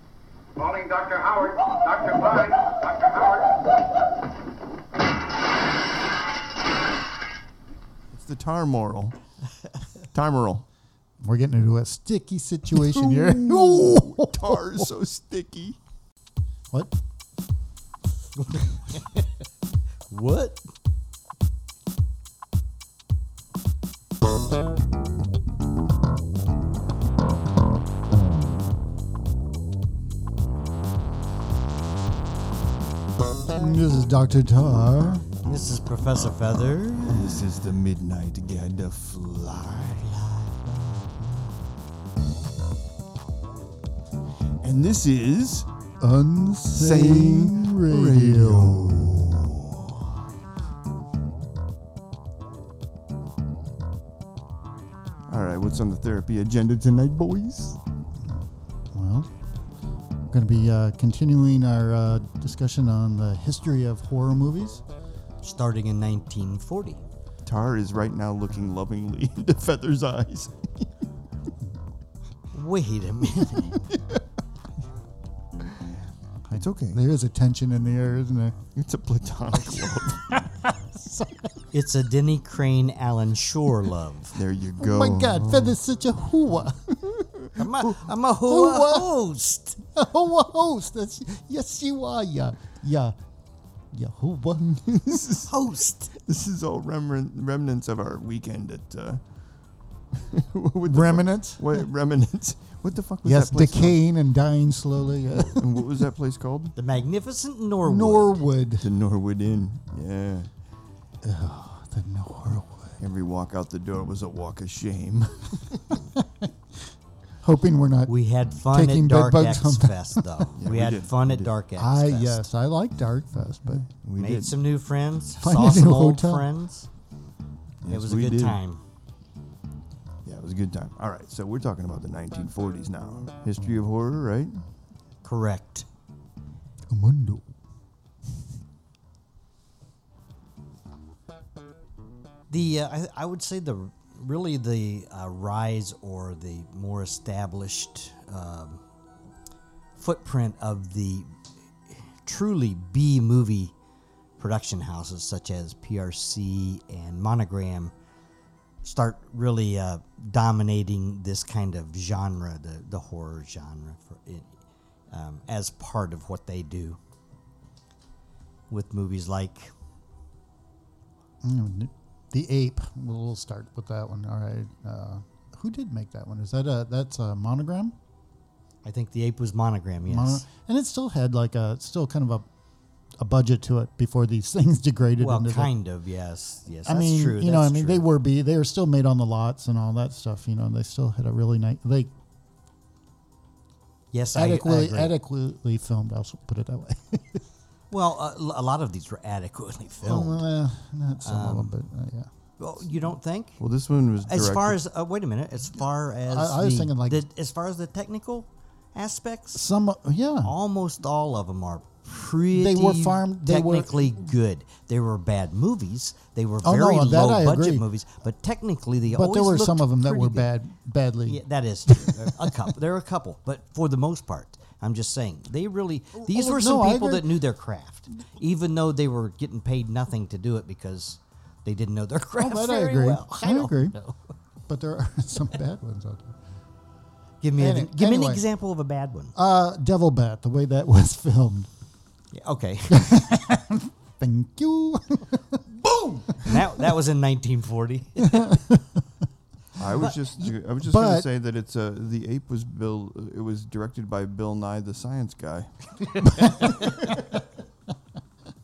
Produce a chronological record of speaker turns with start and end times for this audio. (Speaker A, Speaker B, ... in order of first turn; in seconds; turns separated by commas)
Speaker A: 0.6-3.8, Speaker B: 8.1-9.2, Speaker B: 10.1-10.6, Speaker C: 11.2-14.8, Speaker B: 12.7-15.8, Speaker D: 18.4-19.2, Speaker D: 20.1-20.6, Speaker C: 33.4-35.3, Speaker D: 35.4-37.3, Speaker B: 36.9-40.4, Speaker B: 44.6-45.7, Speaker C: 46.0-49.2, Speaker B: 46.7-49.9, Speaker B: 55.3-57.8, Speaker C: 58.2-59.3, Speaker C: 60.3-64.8, Speaker D: 65.4-67.0, Speaker B: 67.5-70.9, Speaker D: 72.5-73.7, Speaker C: 76.5-78.6, Speaker B: 76.5-77.0, Speaker B: 78.7-80.3, Speaker C: 79.7-80.0, Speaker C: 80.6-81.5, Speaker D: 81.7-84.4, Speaker B: 84.3-85.8, Speaker C: 84.8-86.9, Speaker B: 87.0-87.5, Speaker D: 87.5-89.8, Speaker C: 88.4-89.1, Speaker C: 89.8-93.2, Speaker C: 93.9-95.3, Speaker B: 95.0-95.5, Speaker D: 95.5-96.1, Speaker B: 96.1-99.2, Speaker B: 100.1-104.0, Speaker C: 100.8-101.6, Speaker C: 103.2-105.7, Speaker B: 105.5-106.7, Speaker D: 106.8-108.4, Speaker C: 107.8-108.9, Speaker B: 108.8-110.5, Speaker C: 111.2-113.0, Speaker B: 113.0-115.9, Speaker C: 116.1-116.5, Speaker C: 117.4-120.5, Speaker D: 118.1-122.4, Speaker B: 120.6-121.5, Speaker C: 121.8-123.8, Speaker B: 123.7-124.6, Speaker D: 124.2-126.9, Speaker C: 125.4-126.4, Speaker B: 127.8-128.6, Speaker D: 127.8-128.8, Speaker B: 130.2-134.6, Speaker D: 135.2-135.8, Speaker C: 136.9-137.5, Speaker D: 142.5-148.8, Speaker D: 150.0-151.3, Speaker D: 152.2-153.7, Speaker D: 154.4-157.9, Speaker D: 158.8-164.5, Speaker D: 165.1-167.0, Speaker D: 168.7-169.7, Speaker C: 171.4-177.9, Speaker D: 178.8-180.4, Speaker C: 180.1-182.5, Speaker C: 183.2-185.7, Speaker D: 185.2-188.1, Speaker C: 186.8-192.1, Speaker D: 194.1-195.1, Speaker C: 194.3-197.4, Speaker D: 197.9-200.4, Speaker C: 200.0-202.3, Speaker D: 201.2-201.7, Speaker D: 202.6-203.6, Speaker B: 203.6-204.8, Speaker D: 204.2-209.6, Speaker C: 206.2-207.2, Speaker C: 209.5-210.5, Speaker D: 210.4-220.5, Speaker C: 212.5-214.2, Speaker C: 216.6-217.8, Speaker C: 219.1-222.5, Speaker D: 221.2-234.2, Speaker C: 226.2-227.3, Speaker C: 232.4-233.9, Speaker C: 234.7-236.4, Speaker D: 237.4-239.3, Speaker C: 237.6-238.4, Speaker C: 239.3-241.7, Speaker D: 242.3-243.4, Speaker C: 242.9-246.8, Speaker D: 246.4-248.6, Speaker C: 248.2-249.0, Speaker B: 249.8-256.7, Speaker C: 250.3-251.3, Speaker D: 256.4-256.7